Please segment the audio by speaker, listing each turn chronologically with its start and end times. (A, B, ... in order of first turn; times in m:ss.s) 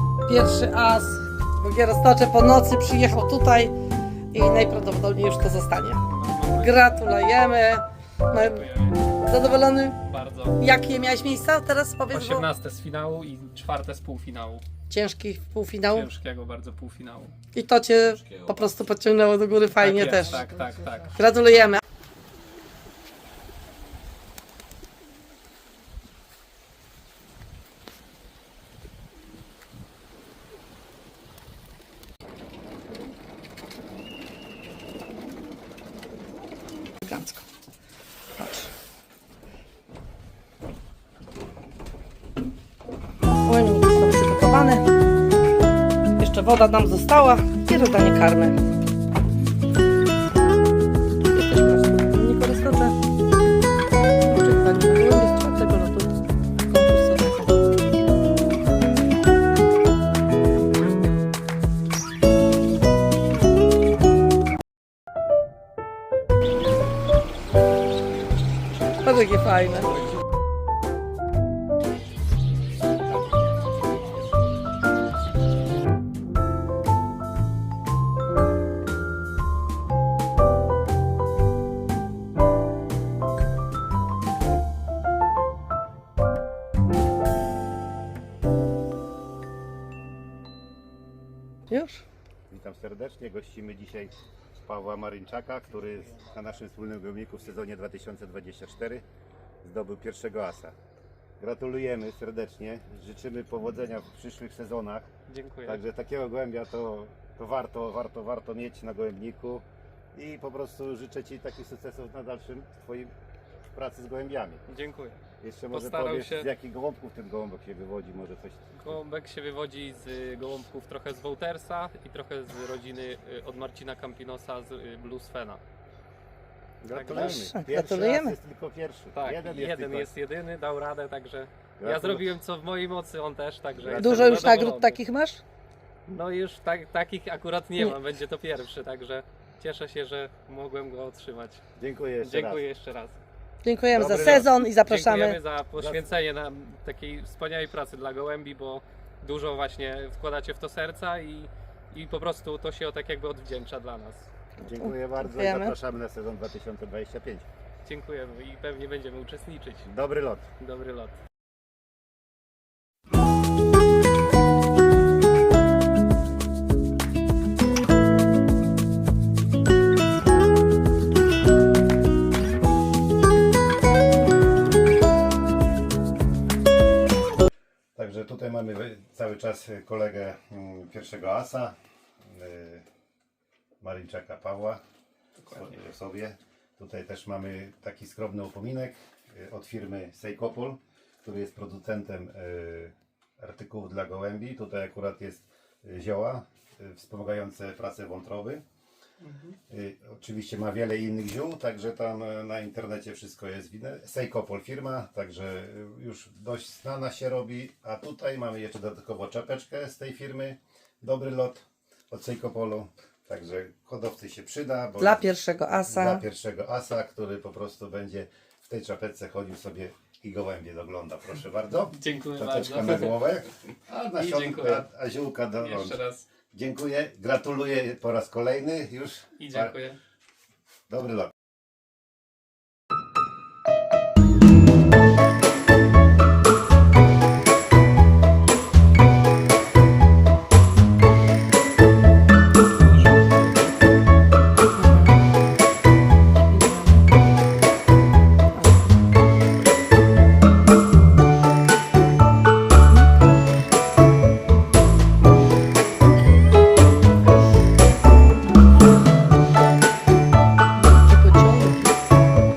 0:00.2-0:03.7 A
0:04.3-0:06.0 A
0:06.1-0:07.0 B
0:06.5-0:08.7 A
0:08.3-0:09.1 B
0:09.2-0:10.0 A
0:10.0-0:10.6 B
0:10.6-0:12.5 A
0:12.1-0:14.6 B
0:14.9-0:16.1 A
0:15.9-0:17.4 B
0:17.5-0:20.4 A
0:19.8-0:21.2 B
0:21.1-0:21.8 A
0:37.0-0:37.4 A
0:38.4-0:38.7 A
0:43.4-0:44.8 A
0:46.2-0:48.6 A
0:51.3-0:52.9 A
0:54.3-0:56.1 A
0:56.7-0:57.6 A
1:09.0-1:09.9 A
1:31.7-1:32.0 A
1:32.5-1:39.0 C
1:39.6-1:40.7 C
1:41.4-1:45.1 C
1:45.3-1:45.8 B
1:45.6-1:53.1 C
1:53.7-1:54.6 C
1:54.7-1:56.5 B
1:55.4-1:59.0 C
1:58.7-2:05.6 B
2:06.8-2:10.1 C
2:06.9-2:07.5 B
2:07.1-2:08.4 A
2:09.1-2:15.0 B
2:11.8-2:12.3 C
2:13.7-2:14.7 C
2:14.0-2:15.4 A
2:16.1-2:21.6 B
2:21.8-2:22.6 C
2:22.2-2:23.2 B
2:23.6-2:25.4 A
2:23.9-2:24.5 C
2:24.1-2:34.3 B
2:25.8-2:26.1 C
2:34.6-2:35.8 A
2:34.6-2:37.4 C
2:37.8-2:39.9 B
2:39.8-2:40.5 C
2:40.6-2:41.2 B
2:57.9-3:01.7 C
3:02.3-3:02.8 C
3:03.8-3:04.8 C
3:05.4-3:05.8 B
3:05.5-3:18.6 C
3:19.2-3:19.6 B
3:19.7-3:35.2 C
3:35.0-3:36.2 A
3:35.9-3:49.8 C
3:41.9-3:43.3 B
3:44.1-3:44.8 B
3:45.6-3:46.2 B
3:49.4-3:50.0 B
3:50.9-3:51.3 C
4:04.7-4:05.2 A
4:06.4-4:07.0 A
4:08.5-4:09.0 A
4:12.9-4:13.2 A
4:20.8-4:22.0 A